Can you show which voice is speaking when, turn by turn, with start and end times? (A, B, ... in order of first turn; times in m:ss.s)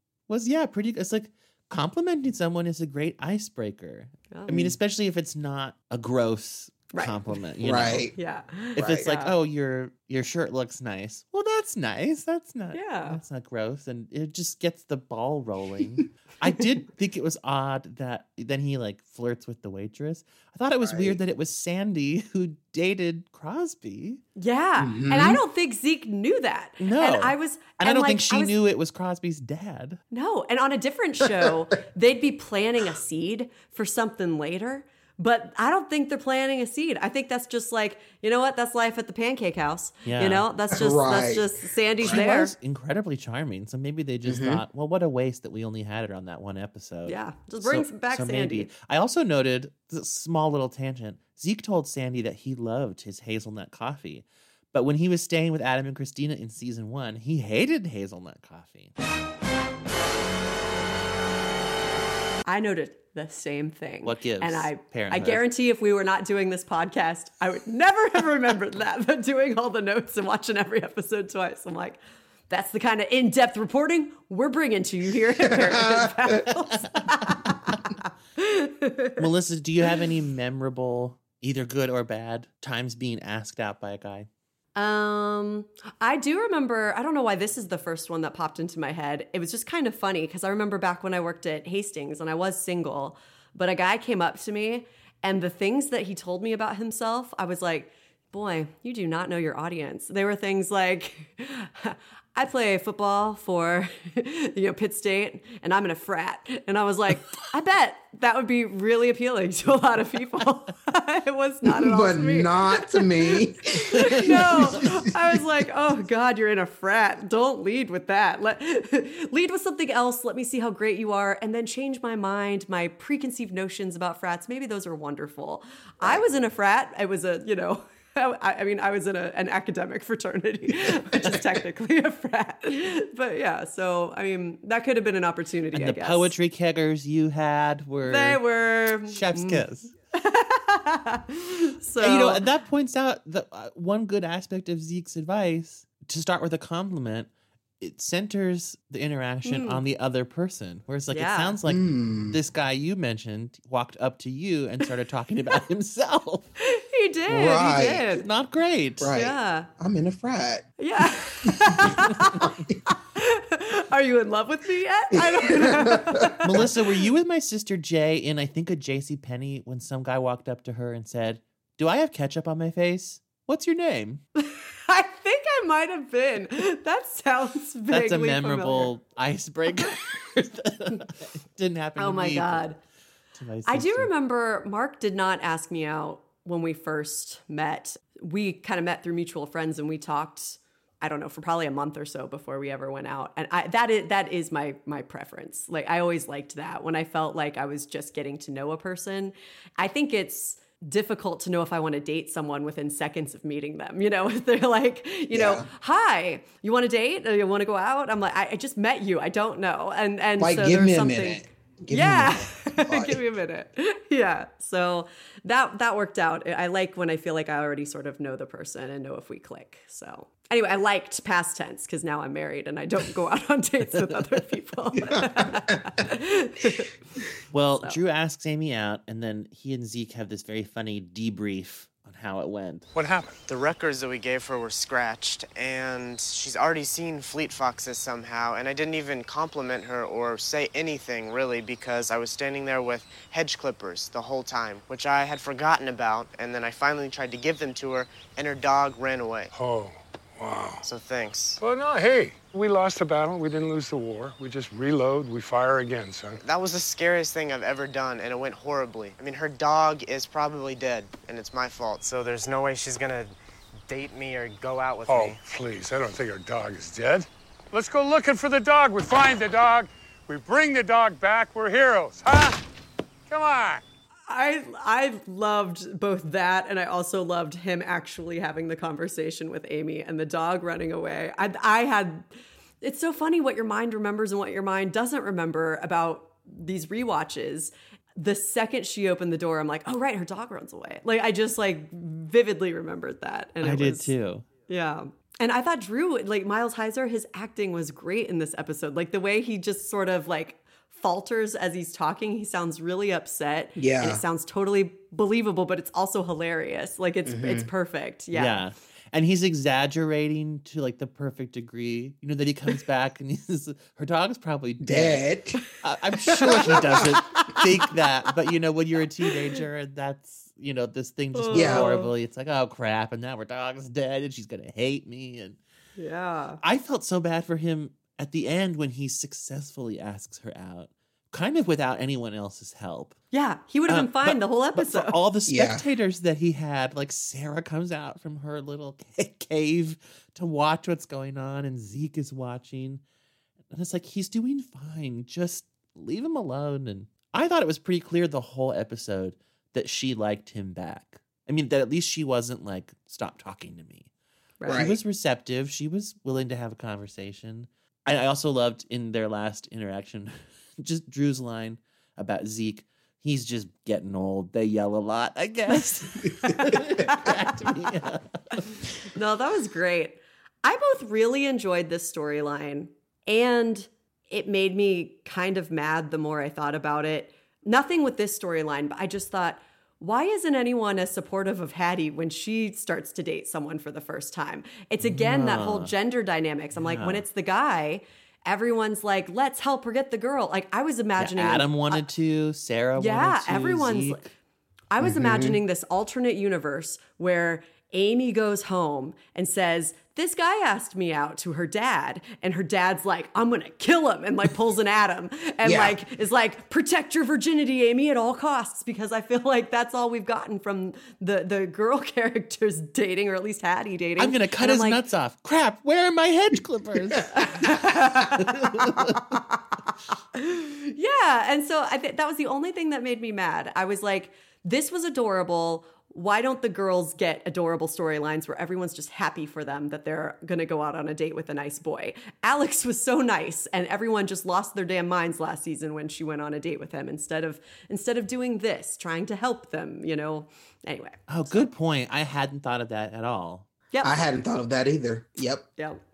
0:00.3-0:08.1 A
0:04.3-0:04.7 B
0:07.6-0:08.1 C
0:08.1-0:09.3 B
0:08.8-0:09.1 C
0:08.8-0:24.2 A
0:12.7-0:13.2 B
0:20.8-0:21.2 C
0:24.4-0:28.5 B
0:24.8-0:25.4 C
0:26.8-0:30.0 A
0:30.1-0:42.5 B
0:40.0-0:40.4 A
0:40.7-0:41.5 C
0:42.0-0:58.9 A
0:44.2-0:44.6 C
0:47.0-0:48.7 B
1:02.5-1:12.0 B
1:04.0-1:05.4 A
1:12.5-1:19.2 B
1:15.4-1:16.5 C
1:19.2-1:24.3 A
1:24.8-2:16.3 B
1:51.6-1:54.9 C
2:10.9-2:11.4 C
2:15.7-2:18.4 A
2:18.0-2:22.4 B
2:19.1-2:19.9 A
2:22.0-2:36.5 A
2:29.4-2:29.8 B
2:31.1-2:31.6 B
2:31.7-2:32.4 C
2:36.6-2:38.2 B
2:37.3-2:38.1 C
2:38.1-2:39.1 A
2:39.0-2:40.7 C
2:39.1-2:39.7 B
2:40.8-2:46.4 B
2:42.4-2:42.7 C
2:45.1-2:46.4 C
2:46.4-2:54.2 A
2:54.4-2:58.9 B
2:57.9-3:02.7 A
3:02.0-3:02.8 B
3:03.4-3:04.1 A
3:03.6-3:46.9 B
3:25.3-3:25.6 C
3:30.4-3:33.2 C
3:45.0-3:45.8 C
3:47.5-3:52.9 A
3:53.0-3:53.4 D
3:53.5-4:09.5 E
4:09.5-4:10.8 D
4:10.8-4:11.6 E
4:11.6-4:16.4 D
4:16.4-4:23.3 E
4:23.9-4:25.4 E
4:25.1-4:32.6 D
4:33.3-4:33.8 D
4:34.3-4:42.2 B
4:42.8-4:54.1 B
4:53.6-4:54.5 A
4:54.7-5:08.6 B
5:03.8-5:04.2 C
5:07.2-5:07.7 C
5:08.3-5:15.3 A
5:14.8-5:15.6 C
5:15.8-5:25.6 A
5:16.3-5:17.5 C
5:21.3-5:22.1 B
5:21.5-5:21.9 C
5:26.0-5:26.6 B
5:26.6-5:33.2 A
5:33.3-5:35.2 B
5:33.9-5:43.0 A
5:35.5-5:35.8 C
5:43.7-5:54.1 A
5:54.6-5:54.9 B
5:54.7-5:55.0 C
5:54.7-6:08.2 A
6:05.7-6:06.0 B
6:06.7-6:07.3 B
6:09.0-6:32.0 B
6:25.0-6:25.9 A
6:26.8-6:27.2 A
6:31.2-6:34.3 A
6:33.0-6:34.2 B
6:34.9-6:55.0 B
6:35.0-6:35.6 C
6:45.6-6:46.0 C
6:54.2-6:57.4 A
6:57.3-6:58.5 B
6:58.6-6:59.2 A
7:00.4-7:21.7 B
7:21.3-7:23.7 A
7:24.0-7:25.6 C